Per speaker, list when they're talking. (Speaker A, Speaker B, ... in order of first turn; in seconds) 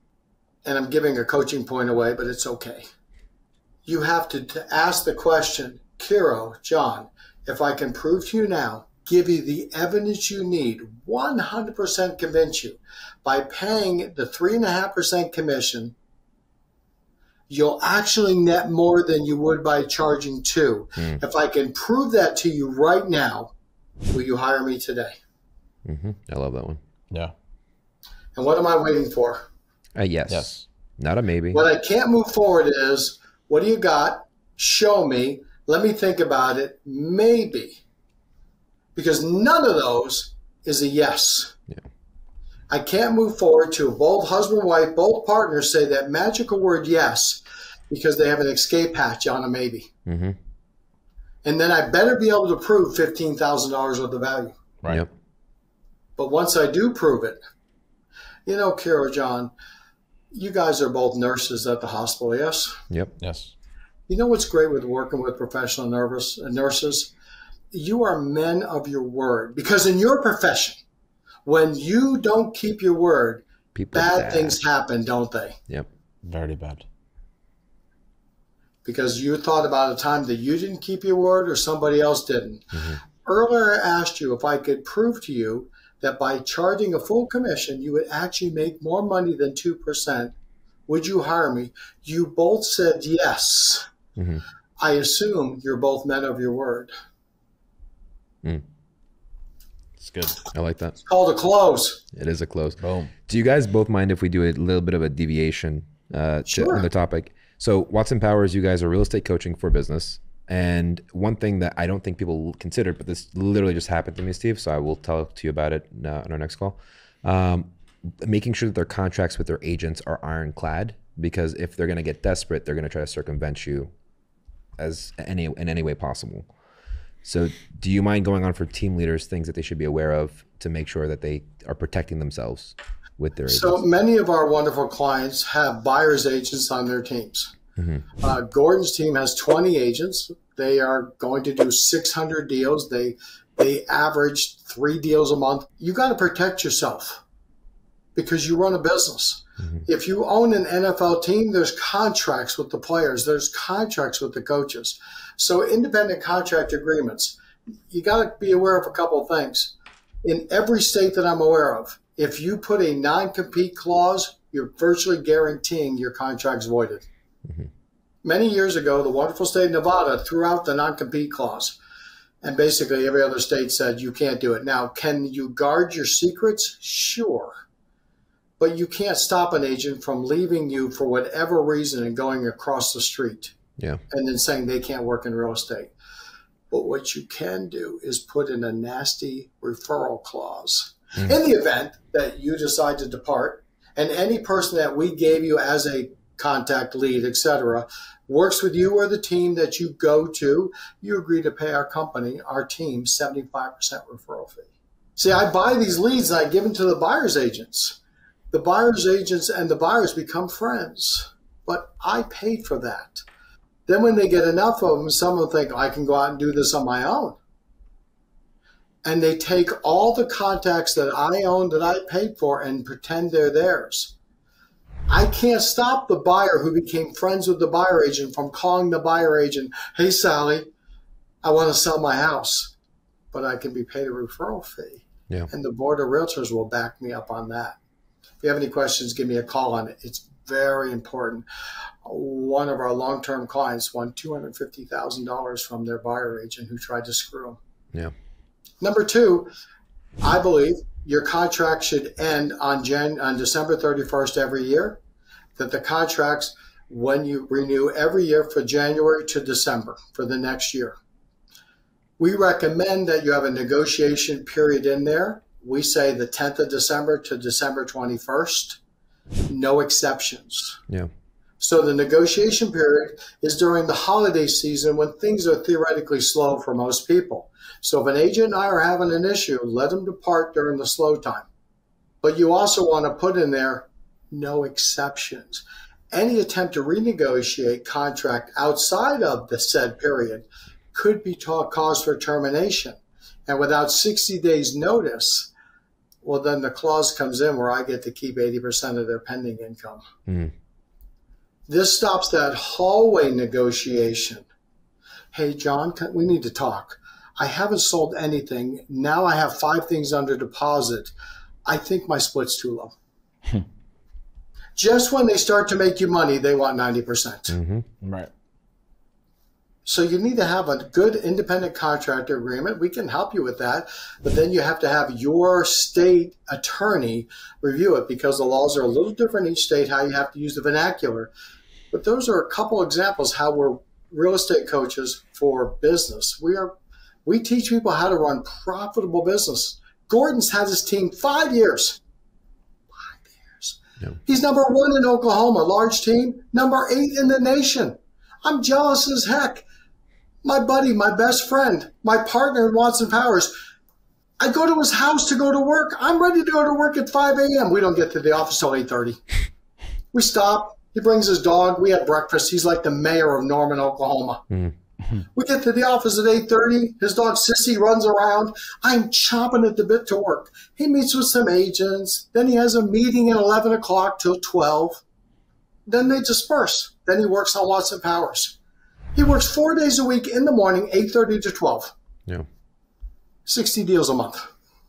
Speaker A: 0.7-2.9, 3.9-15.9, 17.5-23.5, 24.1-25.2, 28.4-29.5, 31.5-37.8, 39.0-41.5, 42.7-49.9, 51.4-54.6, 56.2-57.4, 58.5-59.5, 60.3-62.8, 64.1-67.1, 67.7-70.8, 71.5-75.6, 78.8-82.7, 83.2-90.3, 90.9-93.9, 94.8-96.9, 101.0-102.0, 106.5-106.9, 133.5-137.5, 138.2-147.2, 148.2-157.4, 157.9-167.1, 168.2-171.8, 172.4-177.6, 178.6-183.5, 184.1-185.9, 186.7-208.0, 208.5-213.2, 213.9-217.4, 219.1-224.1, 225.1-230.7, 231.4-232.7, 233.3-237.8, 238.4-241.4, 242.1-247.6, 248.8-249.5, 250.2-255.0, 255.6-261.0, 262.2-268.8, 269.5-270.8, 271.6-281.5, 282.2-295.5, 296.2-300.1, 301.7-304.5, 305.3-311.1, 311.7-312.9, 314.8-317.6, 319.9-331.3, 331.9-336.7, 337.2-342.0, 342.9-349.7, 350.4-353.5, 354.4-359.2, 360.1-364.4, 365.3-375.0, 375.9-378.6, 379.1-381.9, 383.5-384.5
Speaker B: 25.9-26.8, 29.9-31.6, 50.1-50.4, 73.8-74.6, 82.7-83.0, 94.2-94.4, 100.5-101.0, 102.1-123.9, 124.8-126.5, 127.2-133.8, 137.8-138.1, 300.3-300.5, 317.5-317.9
Speaker C: 30.3-30.6, 63.2-63.5, 76.2-76.8, 100.0-100.4, 102.8-103.1, 318.0-318.3